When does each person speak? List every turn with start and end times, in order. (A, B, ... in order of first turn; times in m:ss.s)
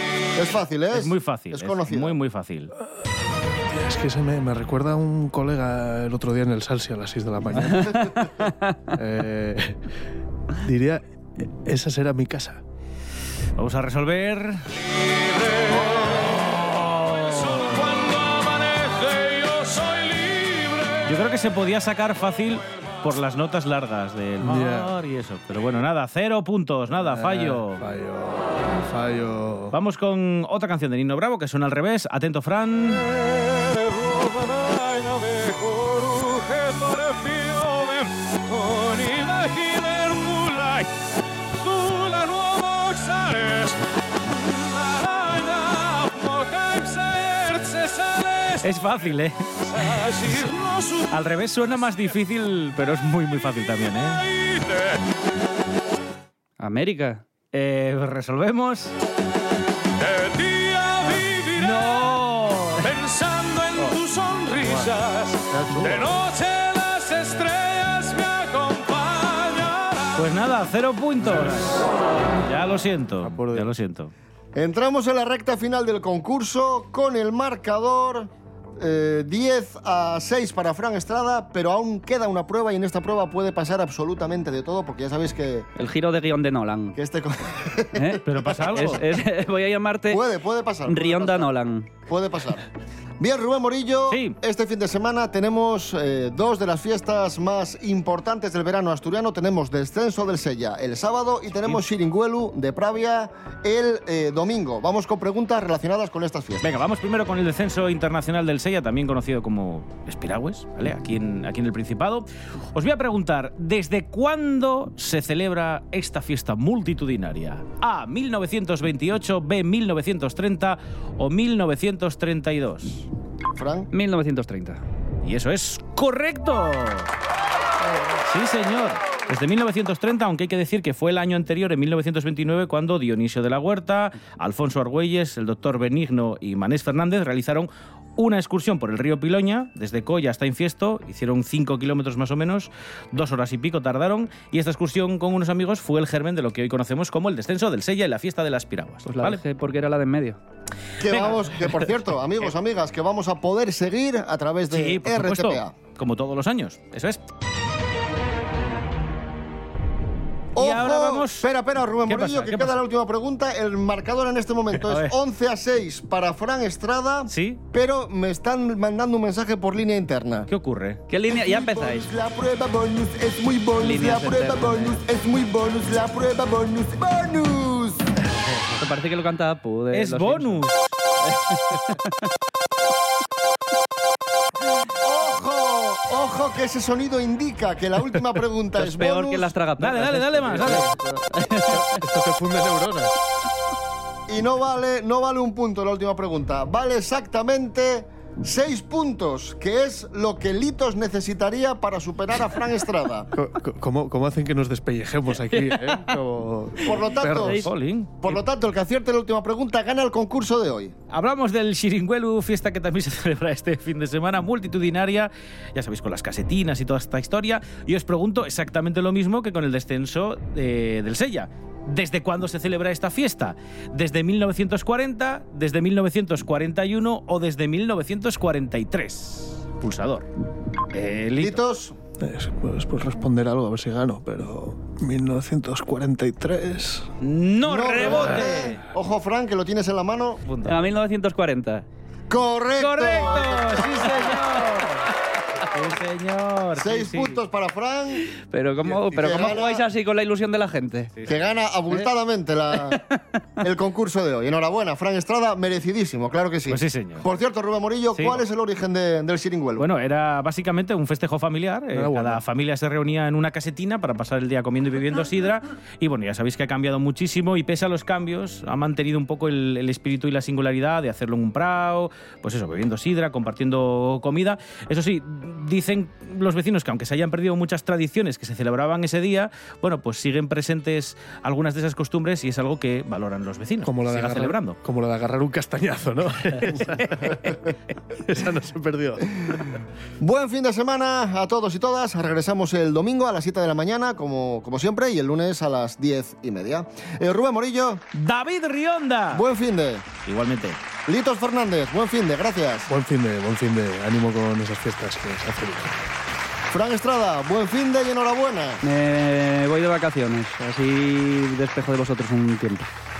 0:00.3-0:02.2 A
0:00.9-0:02.7 B
0:02.9-0:09.8 C
0:07.8-0:08.7 D
0:10.6-0:12.6 C
0:13.6-0:14.7 B
0:16.8-0:17.8 B
0:17.1-0:21.1 E
0:21.0-0:27.8 B
0:24.4-0:25.0 C
0:26.9-0:29.8 C
0:29.7-0:33.1 B
0:33.9-0:40.9 E
0:41.6-0:43.8 E
0:44.6-0:48.7 E
0:48.6-0:49.4 B
0:49.7-0:51.2 E
0:51.1-0:54.2 B
0:54.2-0:55.0 E
0:56.6-0:57.2 D
0:57.5-0:58.9 B
1:00.0-1:02.2 E
1:01.6-1:02.9 B
1:02.8-1:10.2 E
1:04.6-1:04.9 C
1:05.5-1:06.2 C
1:10.2-1:14.1 B
1:11.2-1:11.7 C
1:13.2-1:13.8 C
1:14.5-1:25.7 A
1:25.8-1:27.0 D
1:26.9-1:29.0 A
1:27.9-1:30.2 D
1:28.2-1:29.0 B
1:30.1-1:31.5 A
1:30.9-1:31.9 D
1:32.1-1:32.6 A
1:33.2-1:46.7 A
1:34.1-1:34.3 B
1:46.6-2:03.1 B
2:03.5-2:03.9 A
2:03.9-2:04.8 D
2:05.2-2:07.1 B
2:08.2-2:29.4 B
2:29.0-2:30.4 D
2:31.0-2:35.7 A
2:31.0-2:31.5 B
2:34.7-2:37.2 B
2:40.5-2:50.5 A
2:40.6-2:41.4 B
2:42.1-2:42.7 B
2:44.8-2:45.1 B
2:47.3-2:47.6 B
2:50.5-2:51.0 B
2:51.1-2:52.1 D
2:51.3-2:58.1 A
2:53.8-2:55.0 D
2:58.7-3:00.7 D
2:59.9-3:00.9 B
3:01.3-3:02.1 D
3:05.0-3:09.5 A
3:08.8-3:12.0 D
3:09.8-3:10.9 B
3:10.6-3:10.9 C
3:11.7-3:13.2 C
3:14.3-3:23.3 A
3:23.3-3:27.6 C
3:25.5-3:26.0 D
3:26.8-3:27.6 A
3:27.3-3:27.7 D
3:27.6-3:28.4 B
3:28.2-3:30.9 A
3:31.1-3:50.3 B
3:50.9-3:51.6 B
3:51.4-3:52.0 A
3:52.2-3:57.1 C
3:57.2-3:58.8 B
3:57.6-4:00.4 A
4:00.4-4:00.8 B
4:00.6-4:01.8 D
4:02.3-4:04.4 A
4:02.8-4:07.4 B
4:06.8-4:08.3 A
4:08.4-4:11.1 D
4:09.1-4:09.9 A
4:11.3-4:13.0 A
4:13.6-4:19.9 A
4:16.7-4:17.2 B
4:18.2-4:18.4 B
4:19.8-4:44.8 B
4:21.9-4:22.4 C
4:43.8-4:47.6 C
4:48.1-4:49.8 C
4:50.2-4:58.0 A
4:58.1-4:59.4 B
4:59.3-5:00.1 A
5:00.2-5:00.8 B
5:01.0-5:02.9 A
5:02.9-5:06.0 C
5:06.7-5:08.8 A
5:08.8-5:12.9 D